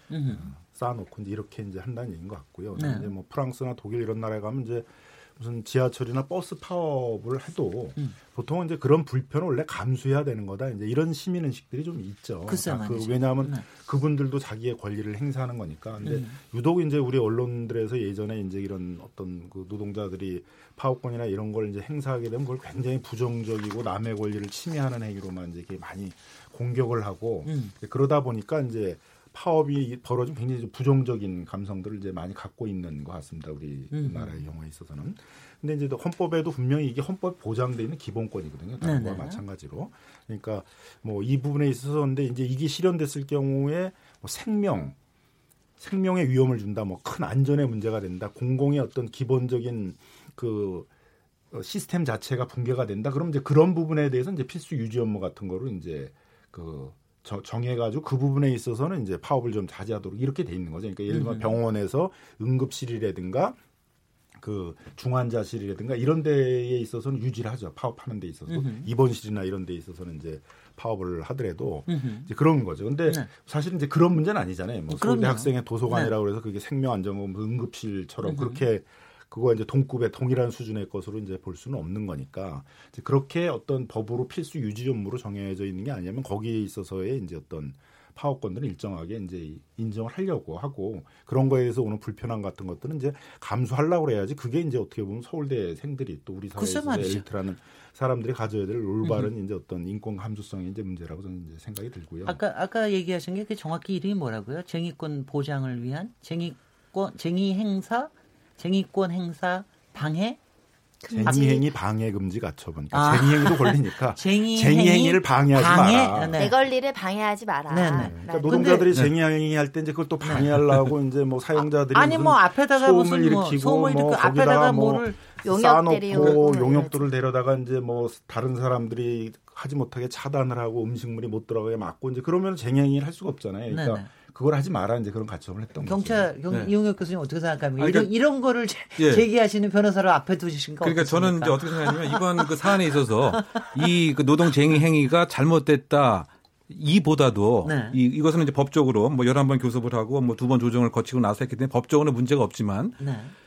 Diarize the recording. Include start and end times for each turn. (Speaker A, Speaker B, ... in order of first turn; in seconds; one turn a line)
Speaker A: 0.1-0.5
Speaker B: 0.3-45.0
Speaker A: 2.8-3.1
Speaker A: 12.5-13.7
Speaker A: 16.0-16.4
Speaker A: 27.4-27.7
Speaker A: 33.9-34.4
Speaker A: 38.8-39.4
Speaker B: 45.8-50.9
Speaker B: 51.5-63.6
Speaker A: 61.1-61.5
Speaker B: 64.4-102.4
Speaker A: 68.5-68.9
Speaker A: 71.9-72.3
Speaker A: 74.9-76.1
Speaker A: 78.2-78.7
Speaker A: 96.6-97.2
Speaker A: 99.0-99.3
Speaker A: 102.2-110.4
Speaker C: 111.0-111.7
Speaker B: 111.1-116.5
Speaker A: 112.9-116.6
Speaker C: 116.4-118.8
Speaker A: 117.7-119.0
Speaker B: 118.0-136.3
Speaker A: 120.2-120.6
Speaker A: 121.6-125.3
Speaker C: 125.4-127.1
Speaker A: 126.1-126.4
Speaker A: 133.7-134.1
Speaker A: 135.8-143.9
Speaker D: 137.8-138.1
Speaker D: 139.0-139.2
Speaker D: 140.8-153.0
Speaker A: 147.6-148.0
Speaker A: 153.0-153.3